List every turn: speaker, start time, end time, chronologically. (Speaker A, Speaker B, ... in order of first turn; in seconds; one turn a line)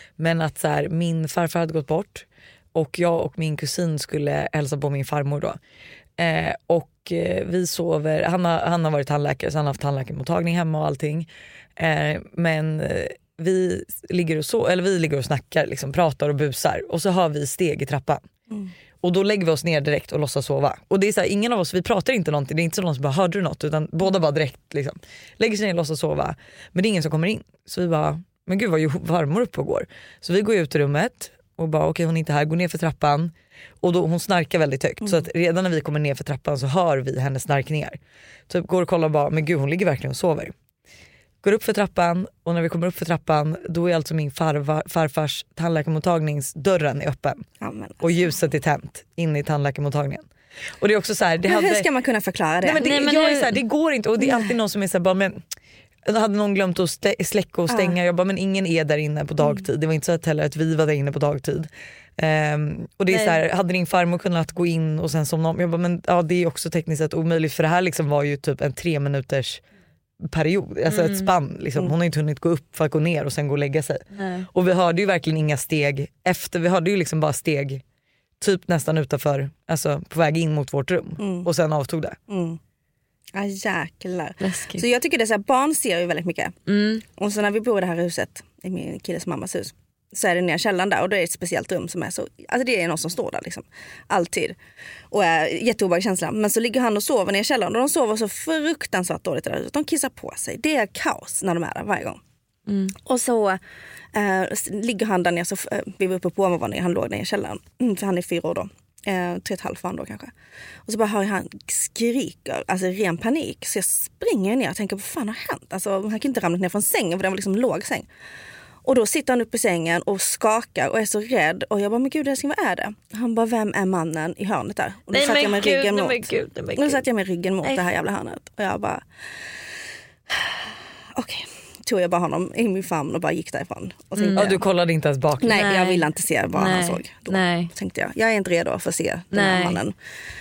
Speaker A: 0.2-5.6
Speaker A: 6.2-18.2
Speaker A: 19.0-38.0
Speaker A: 38.5-40.5
Speaker A: 41.4-47.4
Speaker B: 47.6-48.3
Speaker A: 48.0-50.2
Speaker A: 50.8-51.9
Speaker B: 51.5-52.8
Speaker A: 52.6-55.4
Speaker C: 52.8-53.6
Speaker A: 56.0-69.6
Speaker B: 57.7-58.0
Speaker C: 63.1-63.4
Speaker A: 70.2-77.8
Speaker C: 70.9-71.3
Speaker C: 74.1-74.5
Speaker A: 78.4-82.2
Speaker B: 81.2-81.5
Speaker B: 82.3-82.6
Speaker B: 83.3-86.5
Speaker C: 84.4-84.8
Speaker C: 86.7-87.0
Speaker B: 87.2-94.6
Speaker B: 95.1-102.2
Speaker C: 102.7-103.0
Speaker B: 103.0-103.6
Speaker B: 104.1-110.3
Speaker B: 110.9-118.1
Speaker B: 118.8-129.0
Speaker C: 125.1-127.0
Speaker B: 130.3-130.6
Speaker B: 131.1-134.6
Speaker A: 134.3-135.7
Speaker B: 135.4-139.9
Speaker C: 135.6-137.7
Speaker C: 139.3-139.8